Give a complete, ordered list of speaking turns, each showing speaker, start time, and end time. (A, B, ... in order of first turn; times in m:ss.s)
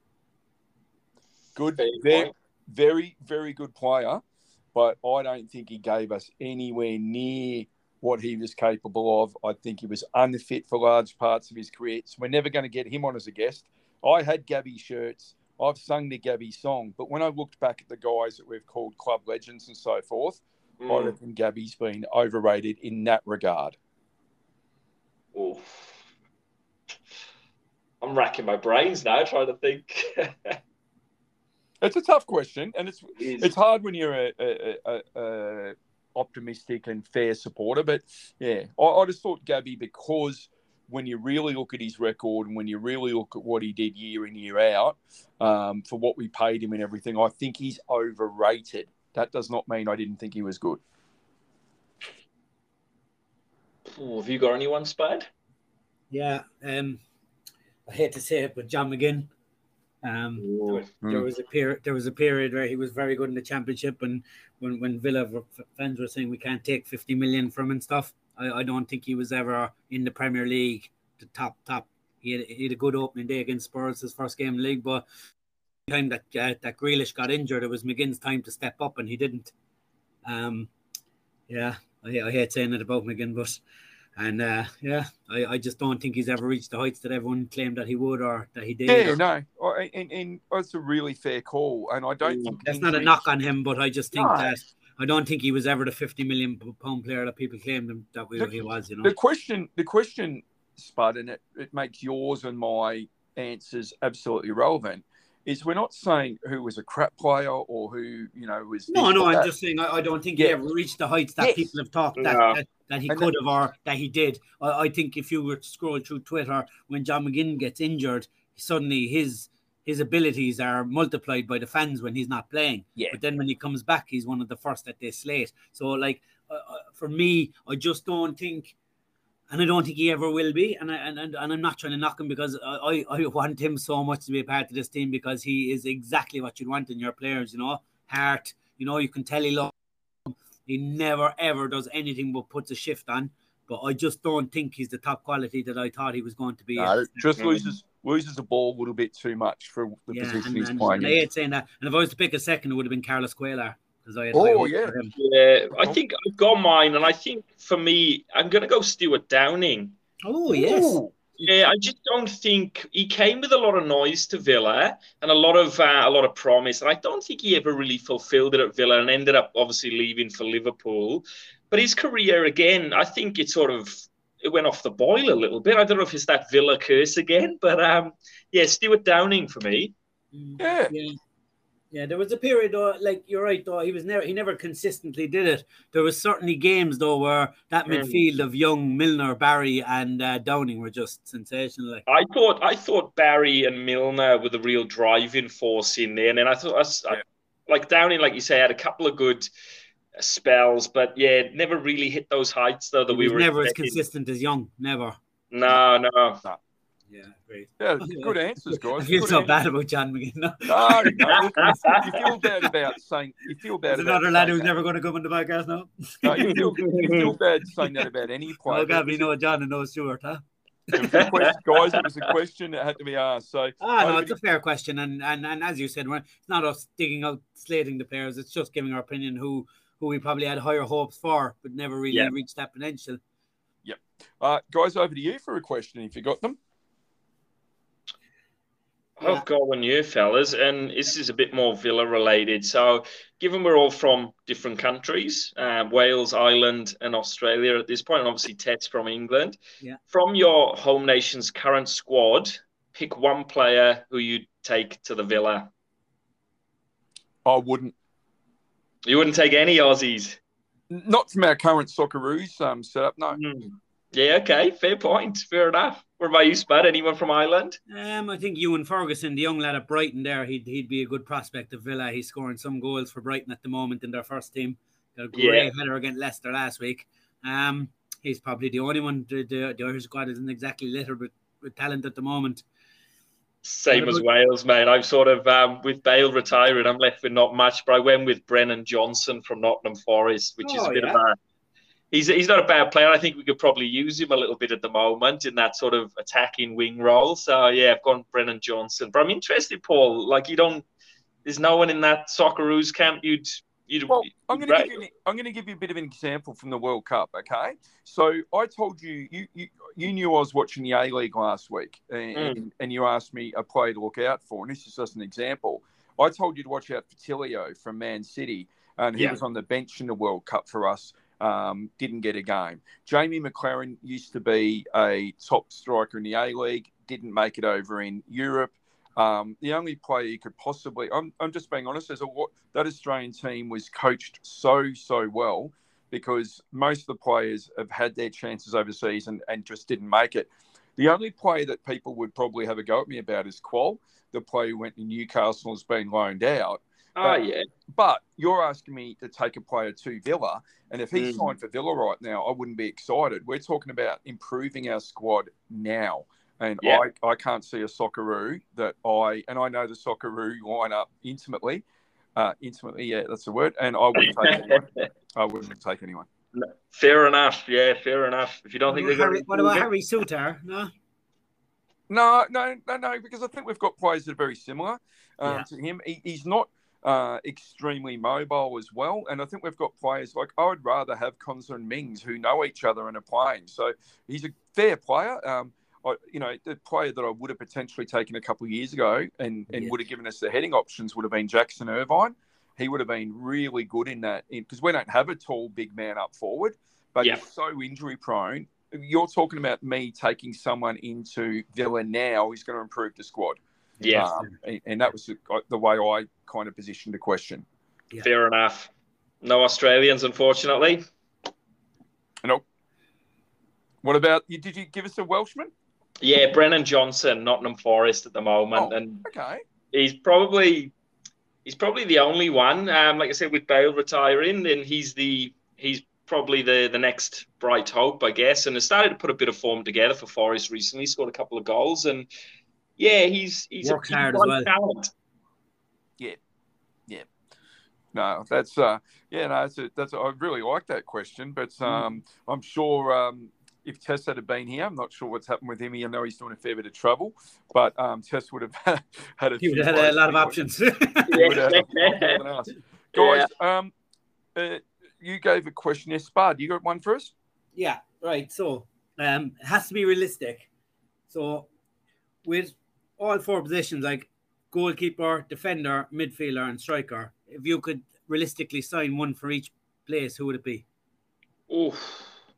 0:01.5-0:04.2 A
0:01.8-0:02.3 B
0:04.7-0:23.8 A
0:20.8-0:21.1 B
0:25.3-0:26.0 B
0:28.0-0:30.6 B
0:31.8-0:50.8 A
0:33.2-0:33.5 B
0:53.9-0:55.3 B
0:56.1-0:57.0 C
0:57.9-0:59.3 C
1:00.0-1:15.0 C
1:00.4-1:00.8 B
1:01.0-1:01.3 A
1:15.9-1:19.5 C
1:20.2-1:20.7 C
1:21.5-1:23.6 C
1:24.2-1:29.2 C
1:28.8-1:33.2 A
1:32.2-1:32.6 B
1:32.6-1:39.1 C
1:34.1-1:34.5 A
1:38.4-1:49.5 A
1:48.9-2:08.7 C
1:51.4-1:51.7 A
1:52.2-1:52.6 B
2:09.5-2:19.7 C
2:20.3-2:27.3 C
2:26.8-2:31.2 A
2:27.4-2:27.6 B
2:30.1-2:35.1 C
2:34.3-2:34.9 A
2:35.2-2:40.0 B
2:40.2-2:41.0 C
2:40.5-2:41.1 A
2:41.4-2:59.9 B
3:00.3-3:01.2 C
3:00.6-3:00.9 A
3:01.9-3:12.0 C
3:07.9-3:08.2 B
3:12.1-3:19.5 B
3:20.2-3:24.0 B
3:23.1-3:25.2 C
3:25.5-3:26.4 B
3:27.1-3:32.2 C
3:27.8-3:29.5 A
3:30.6-3:34.7 A
3:31.6-3:32.2 B
3:33.9-3:36.7 C
3:36.2-3:39.3 A
3:36.4-3:37.3 B
3:38.7-3:41.2 C
3:40.9-3:44.3 A
3:41.1-3:41.9 B
3:43.8-3:53.2 C
3:53.8-3:56.6 A
3:59.2-4:09.6 B
4:10.1-4:15.7 B
4:17.4-4:17.9 A
4:19.0-4:20.4 B
4:20.9-4:23.4 A
4:23.3-4:27.8 B
4:27.9-4:42.6 C
4:35.3-4:35.7 B
4:43.6-4:51.3 B
4:43.9-4:44.2 C
4:50.6-4:51.2 C
4:52.1-5:00.8 B
5:01.4-5:05.0 B
5:04.1-5:47.4 A
5:47.2-5:47.6 B
5:47.9-6:01.8 A
5:51.1-5:51.4 B
6:02.4-6:06.3 A
6:04.2-6:04.8 B
6:06.5-6:09.9 B
6:08.9-6:10.9 C
6:12.1-6:43.6 A
6:29.7-6:29.9 C
6:44.0-6:44.3 B
6:44.0-6:44.5 C
6:44.1-6:47.6 A
6:48.2-6:48.9 B
6:49.4-6:51.0 B
6:54.0-6:55.7 A
6:56.2-6:59.2 B
6:58.7-6:59.6 A
6:59.9-7:00.9 B
7:01.6-7:12.3 B
7:13.0-7:15.1 B
7:13.8-7:14.7 C
7:18.1-7:30.6 A
7:29.6-7:31.6 C
7:31.3-7:33.9 A
7:31.3-7:32.4 B
7:33.1-7:33.5 B
7:34.5-7:37.3 A
7:37.8-7:40.7 C
7:41.3-7:41.7 C
7:42.4-7:50.8 C
7:51.7-7:52.3 B